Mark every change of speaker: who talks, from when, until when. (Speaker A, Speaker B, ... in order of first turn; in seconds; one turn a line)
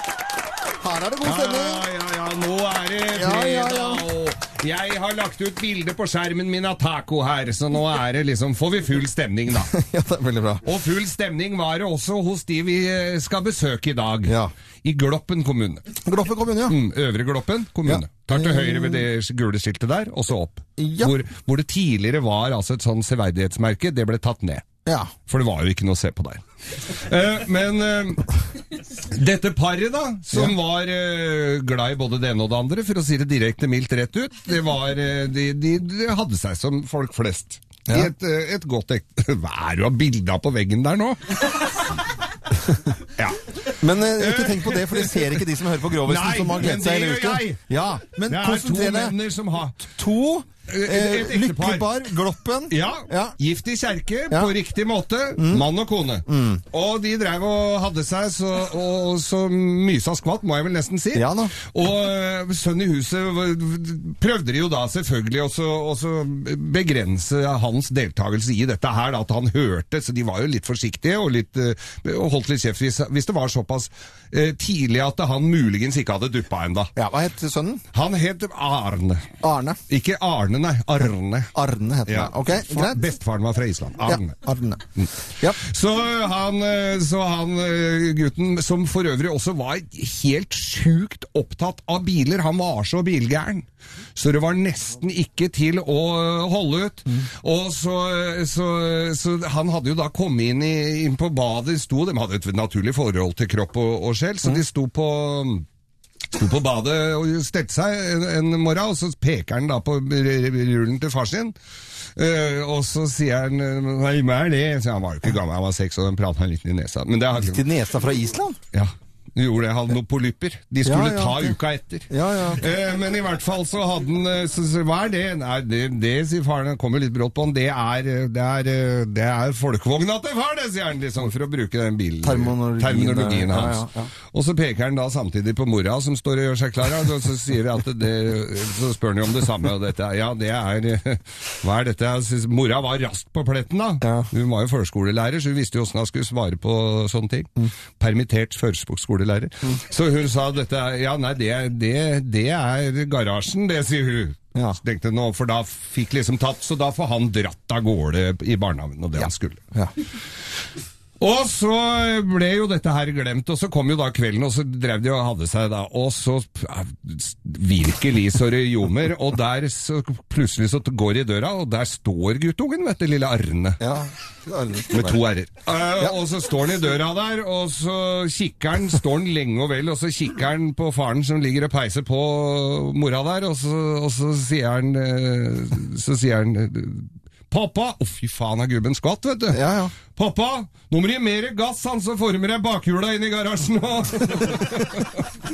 Speaker A: 0.8-1.9
Speaker B: 1.2-9.7
Speaker A: 3.1-4.0
Speaker A: 9.5-10.7
Speaker B: 10.6-15.8
Speaker A: 14.3-14.5
Speaker A: 16.0-16.8
Speaker B: 16.7-24.6
Speaker A: 17.9-19.1
Speaker A: 20.8-21.2
Speaker A: 24.9-25.1
Speaker B: 25.3-28.3
Speaker B: 28.9-41.9
Speaker B: 43.2-45.4
Speaker A: 43.7-49.2
Speaker B: 46.0-47.6
Speaker B: 48.2-49.8
Speaker A: 49.8-53.4
Speaker B: 50.7-52.0
Speaker B: 52.7-76.9
Speaker A: 55.4-55.7
Speaker A: 56.3-56.6
Speaker A: 61.1-61.5
Speaker A: 77.0-77.8
Speaker B: 77.9-79.2
Speaker A: 79.4-79.8
Speaker B: 79.9-81.5
Speaker A: 81.5-83.1
Speaker B: 82.1-84.3
Speaker A: 84.0-84.8
Speaker B: 85.5-93.7
Speaker B: 94.2-105.7
Speaker B: 106.3-111.5
Speaker B: 112.2-117.6
Speaker A: 117.4-118.6
Speaker B: 118.7-159.6
Speaker A: 120.8-121.6
Speaker A: 122.1-122.6
Speaker A: 132.2-134.1
Speaker A: 144.0-144.3
Speaker A: 159.2-159.9
Speaker B: 161.2-173.8
Speaker A: 173.8-175.2
Speaker B: 174.9-195.3
Speaker A: 189.5-189.9
Speaker A: 194.4-194.8